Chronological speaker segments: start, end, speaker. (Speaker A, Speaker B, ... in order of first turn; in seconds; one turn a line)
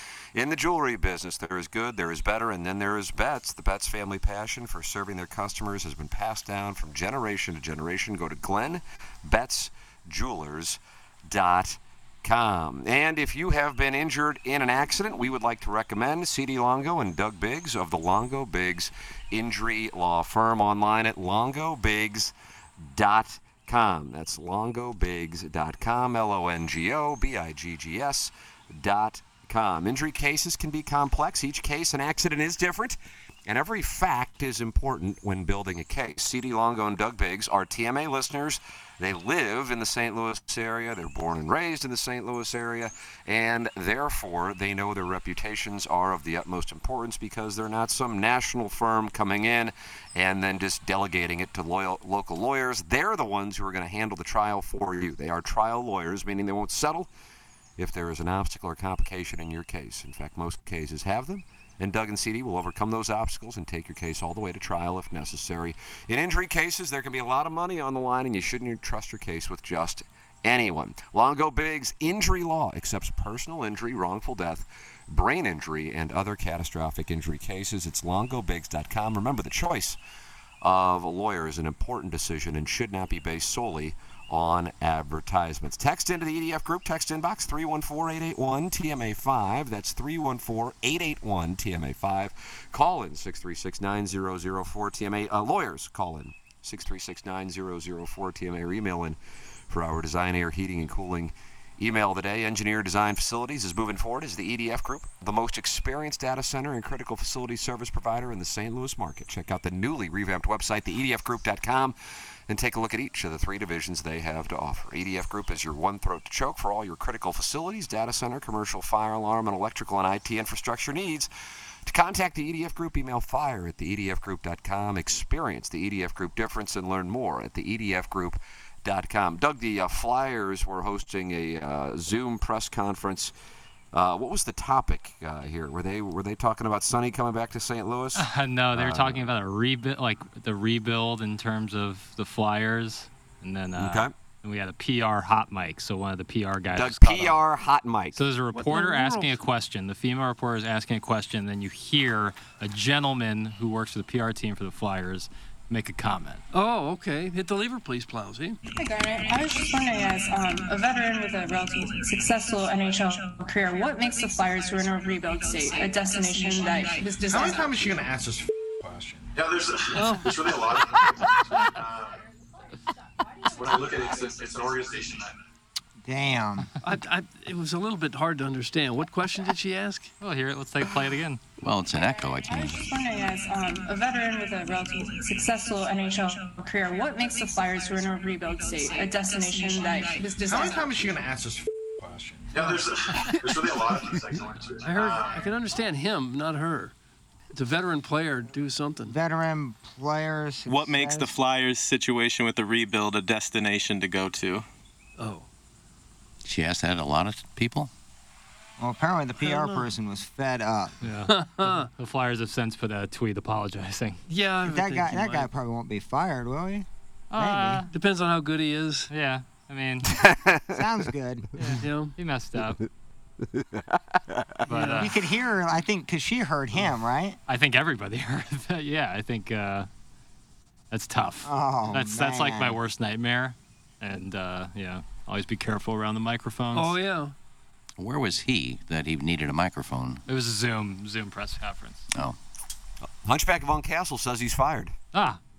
Speaker A: 0.3-57.1
Speaker A: 57.8-80.0
Speaker A: 80.6-99.2
Speaker A: 99.7-111.9
Speaker A: 112.5-121.3
Speaker A: 121.8-133.3
Speaker A: 133.9-139.3
Speaker B: 138.1-147.4
Speaker A: 143.8-144.1
Speaker A: 146.7-148.2
Speaker B: 148.1-156.4
Speaker C: 148.5-149.4
Speaker C: 156.5-158.6
Speaker D: 158.7-168.0
Speaker E: 167.2-169.6
Speaker F: 169.4-171.2
Speaker C: 169.9-170.5
Speaker F: 173.5-175.2
Speaker G: 176.0-176.7
Speaker C: 176.8-180.1
Speaker B: 180.2-181.4
Speaker H: 181.6-182.8
Speaker D: 182.5-191.1
Speaker E: 190.4-193.0
Speaker F: 192.5-195.3
Speaker E: 193.5-193.9
Speaker E: 194.5-194.8
Speaker C: 194.8-196.9
Speaker C: 197.5-199.2
Speaker G: 199.1-201.3
Speaker I: 200.7-204.7
Speaker C: 205.2-205.5
Speaker H: 206.4-207.9
Speaker G: 208.8-210.9
Speaker C: 209.4-209.9
Speaker B: 211.0-214.2
Speaker C: 211.3-211.9
Speaker C: 214.3-215.5
Speaker G: 214.6-217.8
Speaker B: 217.3-217.9
Speaker C: 217.9-219.1
Speaker B: 219.1-220.1
Speaker A: 220.2-220.7
Speaker G: 220.7-221.5
Speaker B: 221.6-222.8
Speaker C: 221.8-222.1
Speaker B: 224.7-225.1
Speaker C: 224.7-225.1
Speaker G: 224.9-227.4
Speaker B: 227.5-229.9
Speaker B: 230.9-237.0
Speaker G: 231.4-232.8
Speaker C: 236.7-237.3
Speaker H: 238.0-240.2
Speaker B: 240.3-242.0
Speaker A: 243.2-244.9
Speaker B: 245.1-245.4